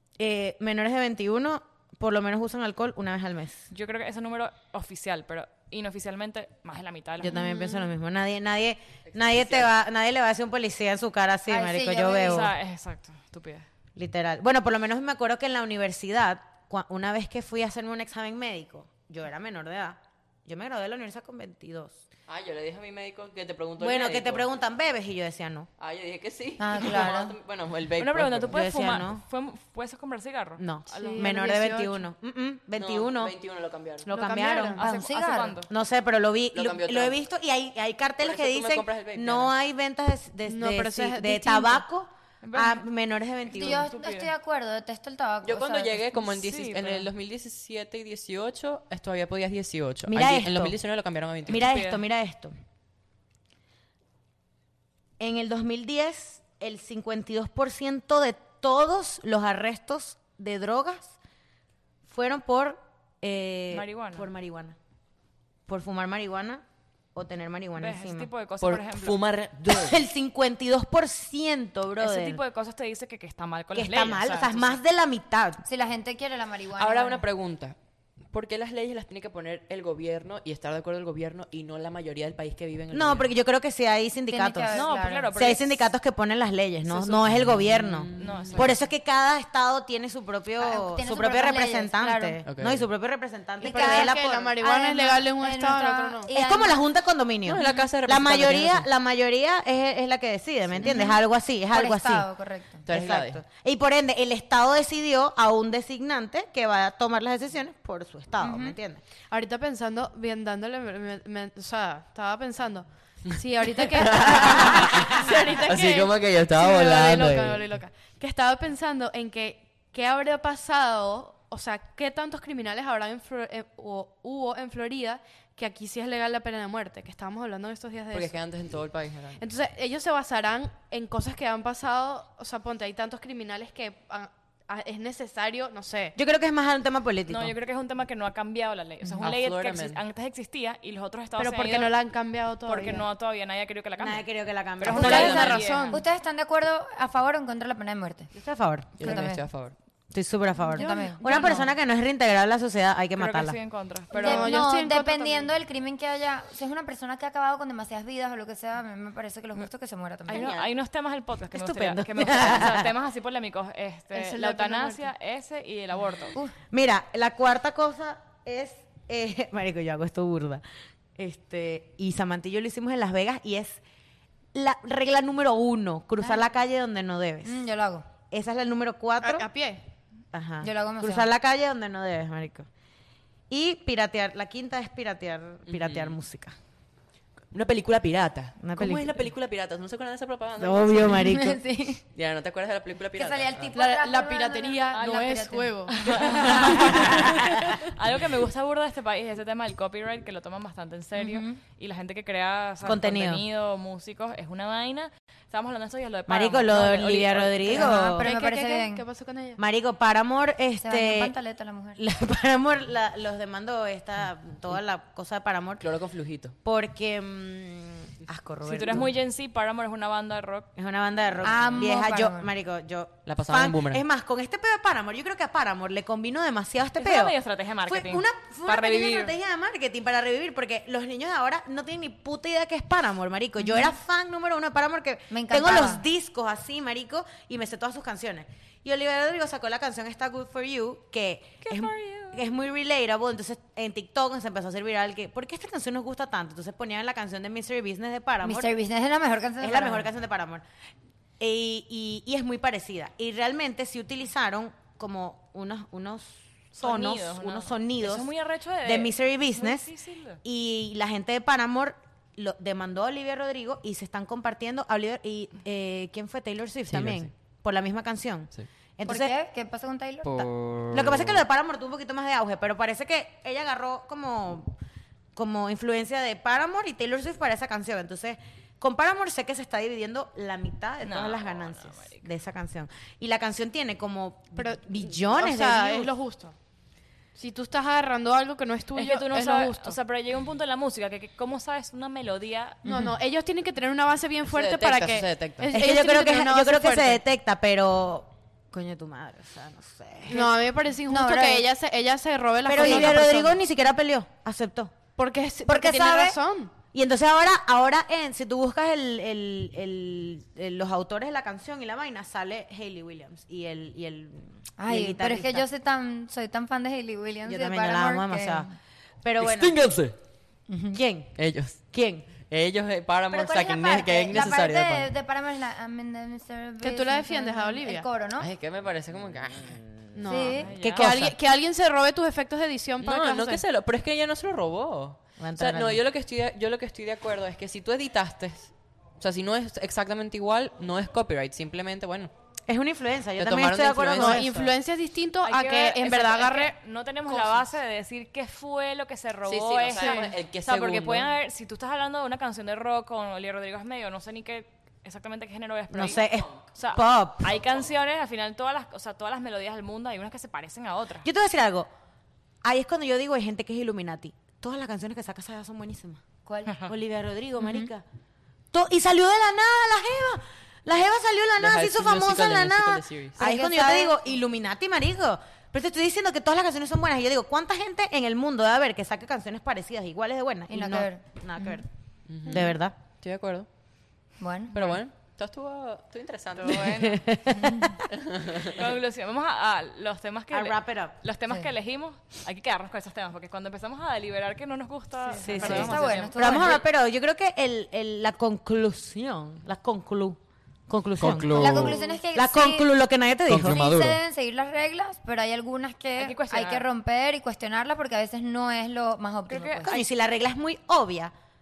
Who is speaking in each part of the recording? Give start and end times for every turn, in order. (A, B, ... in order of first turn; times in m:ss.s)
0:00.2-0:03.7 A
0:03.7-0:07.4 B
0:07.2-0:12.5 A
0:07.3-0:07.8 C
0:09.1-0:09.7 D
0:11.5-0:12.5 C
0:12.2-0:13.7 B
0:14.0-0:22.0 A
0:22.3-0:24.4 D
0:23.8-0:25.7 A
0:25.8-0:28.6 D
0:26.6-0:27.4 C
0:28.0-0:31.4 B
0:28.5-0:29.2 A
0:30.6-0:33.4 A
0:30.9-0:32.0 E
0:32.8-0:34.1 D
0:34.0-0:34.8 A
0:34.1-0:34.9 E
0:34.8-0:35.7 B
0:34.8-0:35.6 C
0:35.7-0:43.9 A
0:36.5-0:37.1 D
0:38.2-0:39.5 D
0:40.5-0:41.8 E
0:42.4-0:42.8 B
0:43.5-0:46.1 C
0:43.6-0:44.3 B
0:45.4-0:51.7 D
0:46.1-0:47.1 B
0:50.0-0:50.8 A
0:51.4-0:52.5 A
0:51.5-0:52.0 B
0:55.2-1:01.1 A
1:02.0-1:04.8 A
1:03.7-1:04.3 B
1:05.7-1:06.6 A
1:07.1-1:08.3 A
1:07.8-1:09.2 B
1:08.6-1:10.0 D
1:09.7-1:12.4 A
1:12.0-1:14.8 B
1:13.7-1:15.6 A
1:15.6-1:17.2 C
1:16.8-1:17.8 D
1:18.3-1:23.3 D
1:22.9-1:34.6 A
1:24.3-1:25.3 C
1:24.7-1:25.8 B
1:27.2-1:28.8 D
1:28.2-1:28.8 B
1:30.6-1:32.4 C
1:32.4-1:32.8 D
1:33.6-1:36.3 E
1:33.6-1:36.8 C
1:36.3-1:42.3 A
1:37.4-1:38.9 D
1:40.8-1:41.2 C
1:41.7-1:42.8 C
1:42.8-1:49.0 A
1:42.9-1:43.4 D
1:48.4-1:48.8 C
1:49.3-2:08.4 E
1:53.8-1:57.6 D
1:54.8-1:55.3 A
2:08.1-2:09.4 D
2:09.4-2:16.2 E
2:16.2-2:17.5 A
2:17.3-2:22.0 B
2:19.2-2:20.0 D
2:21.4-2:23.0 E
2:22.6-2:24.2 B
2:24.0-2:25.5 A
2:24.8-2:26.0 B
2:24.9-2:26.0 E
2:24.9-2:25.6 D
2:25.9-2:28.3 C
2:28.3-2:29.2 A
2:29.0-2:29.7 D
2:29.0-2:29.4 C
2:30.1-2:33.6 A
2:30.7-2:31.6 C
2:30.7-2:31.5 E
2:31.3-2:31.6 B
2:33.2-2:34.6 B
2:34.1-2:35.5 E
2:34.1-2:40.6 C
2:40.3-2:40.7 A
2:40.3-2:46.4 B
2:41.5-2:42.9 A
2:44.1-2:45.1 E
2:46.7-2:50.6 A
2:51.2-2:53.8 A
2:54.5-2:57.6 A
2:57.4-2:58.0 C
2:58.3-2:59.5 A
2:59.2-2:59.8 E
3:00.3-3:02.7 A
3:00.6-3:01.3 C
3:03.5-3:06.6 A
3:05.7-3:06.1 D
3:07.5-3:11.2 D
3:08.6-3:09.1 A
3:10.6-3:11.6 A
3:11.2-3:12.0 C
3:12.1-3:13.7 D
3:13.1-3:17.3 C
3:13.7-3:17.2 E
3:14.9-3:15.2 B
3:15.9-3:27.9 B
3:21.2-3:21.6 C
3:22.8-3:23.4 A
3:26.3-3:28.3 A
3:27.7-3:29.0 C
3:27.9-3:29.6 E
3:29.6-3:31.3 A
3:30.8-3:32.0 C
3:32.0-3:35.9 A
3:35.8-3:36.6 D
3:36.6-3:39.1 A
3:38.6-3:40.7 B
3:40.8-3:47.3 A
3:41.4-3:42.5 C
3:43.2-3:44.0 D
3:47.0-3:49.4 B
3:47.8-4:08.7 A
3:55.3-3:56.0 C
4:01.6-4:02.4 B
4:08.4-4:10.1 C
4:09.6-4:10.6 A
4:11.4-4:18.3 A
4:16.8-4:20.4 B
4:18.8-4:19.9 A
4:20.4-4:29.3 A
4:26.9-4:27.3 D
4:29.0-4:30.5 C
4:30.2-4:31.4 D
4:30.4-4:34.8 A
4:35.3-4:46.1 A
4:41.0-4:42.3 B
4:44.5-4:46.5 E
4:47.3-4:50.0 E
4:48.9-4:52.8 B
4:52.8-4:53.1 C
4:52.8-4:57.2 E
4:54.4-4:55.7 D
4:55.7-5:00.5 A
5:00.3-5:03.6 E
5:01.1-5:01.7 C
5:02.6-5:05.0 A
5:02.8-5:03.2 C
5:05.2-5:06.7 E
5:05.7-5:06.4 A
5:06.9-5:15.6 A
5:14.8-5:18.7 C
5:17.4-5:18.7 A
5:19.2-5:19.8 A
5:19.4-5:20.2 D
5:20.7-5:21.0 C
5:20.9-5:21.4 A
5:21.4-5:21.8 D
5:21.9-5:22.3 A
5:22.4-5:25.1 D
5:23.3-5:28.5 C
5:26.8-5:28.1 E
5:28.4-5:31.3 D
5:30.1-5:33.6 E
5:30.2-5:30.8 C
5:30.5-5:31.1 B
5:33.0-5:42.3 D
5:35.4-5:36.0 A
5:42.7-5:44.5 A
5:43.4-5:44.7 D
5:44.1-5:46.7 E
5:45.4-6:01.3 B
5:47.3-5:47.6 E
5:49.5-5:51.3 D
5:49.9-5:50.3 E
5:55.9-5:57.5 A
6:01.2-6:01.9 A
6:02.6-6:06.2 A
6:06.4-6:06.7 C
6:06.8-6:08.0 A
6:07.6-6:07.9 C
6:08.7-6:21.9 A
6:11.6-6:13.4 D
6:13.4-6:14.2 C
6:20.7-6:21.8 C
6:22.3-6:22.6 D
6:22.4-6:22.9 A
6:23.2-6:23.7 D
6:24.4-6:25.0 C
6:24.7-6:27.1 D
6:26.6-6:27.7 B
6:26.8-6:28.0 A
6:28.1-6:28.8 D
6:28.6-6:36.8 B
6:30.5-6:31.1 A
6:35.2-6:36.1 E
6:35.4-6:44.0 A
6:35.5-6:36.8 C
6:35.6-6:35.9 D
6:41.2-6:42.0 D
6:41.5-6:42.8 C
6:43.5-6:44.2 D
6:43.6-6:50.0 C
6:46.2-6:46.8 B
6:49.5-6:50.0 B
6:49.8-6:51.3 A